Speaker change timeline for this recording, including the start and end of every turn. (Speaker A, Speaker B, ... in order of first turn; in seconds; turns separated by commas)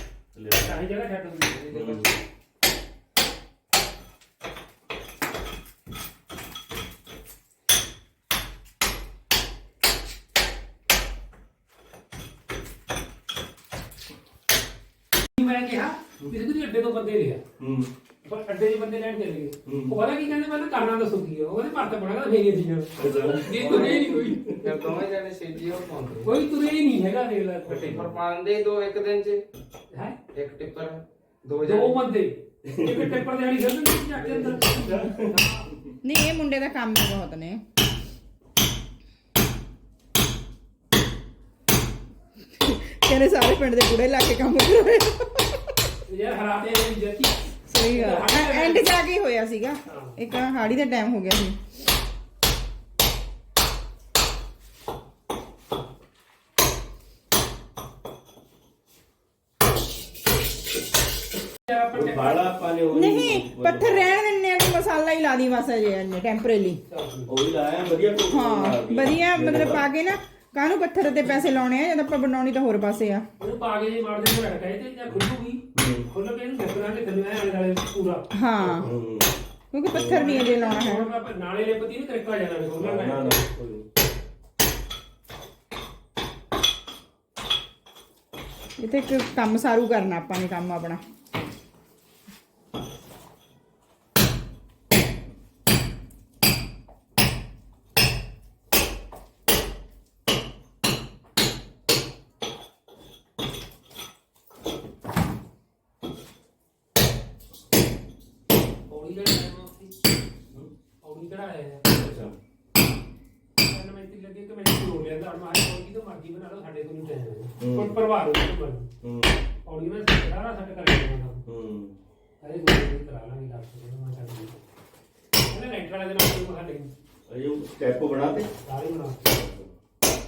Speaker A: 0.3-0.8, Speaker B: 0.5-1.7, Speaker C: 1.5-2.1, Speaker A: 1.7-2.2, Speaker B: 15.4-17.4, Speaker A: 17.6-17.9, Speaker B: 18.2-24.5, Speaker A: 19.6-19.9, Speaker A: 23.0-24.9, Speaker C: 23.7-24.1, Speaker C: 24.6-26.3, Speaker B: 26.2-28.0, Speaker C: 27.7-29.4, Speaker A: 27.8-28.2, Speaker B: 29.9-30.2, Speaker C: 30.3-32.0, Speaker B: 31.6-35.7, Speaker A: 32.6-33.2, Speaker C: 34.1-34.7, Speaker A: 34.9-35.9, Speaker D: 36.0-37.6, Speaker D: 42.5-45.8, Speaker B: 46.1-48.9, Speaker D: 47.7-51.6, Speaker B: 49.9-50.2, Speaker B: 61.7-62.5, Speaker A: 61.9-64.1, Speaker D: 62.9-66.8, Speaker B: 66.9-67.3, Speaker A: 67.3-69.9, Speaker D: 68.3-73.2, Speaker B: 73.4-78.9, Speaker A: 75.1-76.1, Speaker D: 78.3-78.8, Speaker A: 78.8-79.3, Speaker D: 79.7-81.0, Speaker A: 79.9-80.3, Speaker B: 80.0-83.5, Speaker A: 82.8-83.9, Speaker D: 88.8-91.0, Speaker B: 108.9-109.9, Speaker B: 111.0-111.8, Speaker A: 111.9-112.3, Speaker B: 113.6-118.9, Speaker A: 117.6-118.0, Speaker A: 119.0-119.4, Speaker B: 119.6-121.4, Speaker A: 121.5-122.0, Speaker B: 122.4-124.6, Speaker B: 125.5-126.9, Speaker A: 127.3-128.5, Speaker B: 128.7-129.2, Speaker A: 129.2-129.7